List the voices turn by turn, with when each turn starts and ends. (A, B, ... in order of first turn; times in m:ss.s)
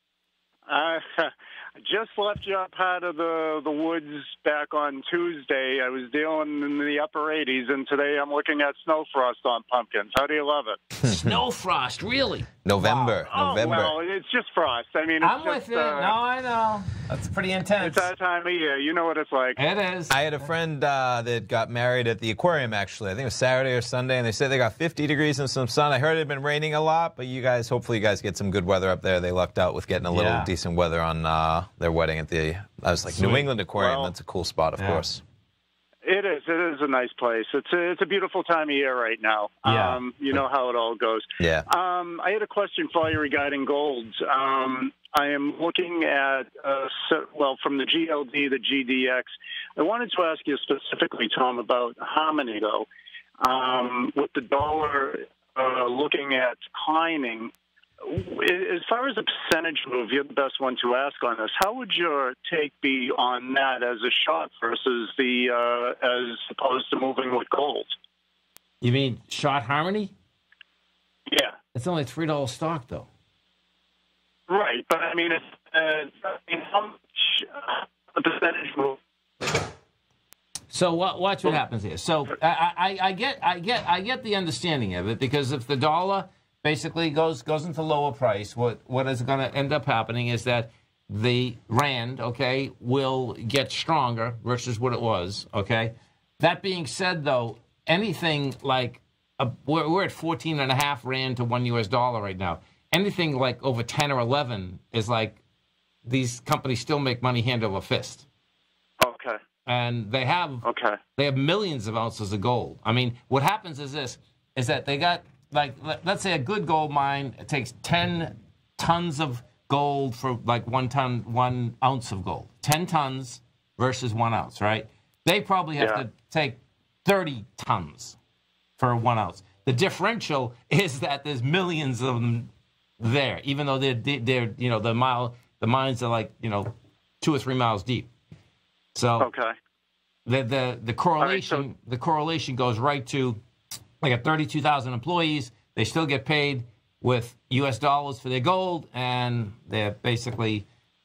0:00.7-0:10.8 A
0:11.0-0:13.2 B
0:11.0-0:11.4 C
0:12.6-0:14.0 C
0:13.2-0:16.2 A
0:15.2-0:18.1 B
0:17.8-0:19.6 A
0:19.6-0:20.2 B
0:20.1-0:35.2 C
0:30.1-0:30.5 B
0:33.1-0:33.5 B
0:33.8-0:34.1 A
0:34.8-0:35.0 B
0:36.0-0:52.9 A
0:39.6-0:40.0 B
0:41.4-0:41.6 C
0:53.4-1:07.9 A
1:08.8-1:10.1 B
1:11.3-1:11.6 A
1:11.7-1:13.1 B
1:14.5-1:19.0 A
1:20.7-1:45.4 B
1:46.0-1:48.2 B
1:49.0-1:49.4 A
1:49.6-2:08.2 B
1:50.6-1:51.0 A
2:08.8-2:18.1 B
2:18.9-2:19.3 B
2:19.2-2:19.5 A
2:20.2-2:23.4 B
2:21.2-2:21.6 A
2:24.0-2:30.6 B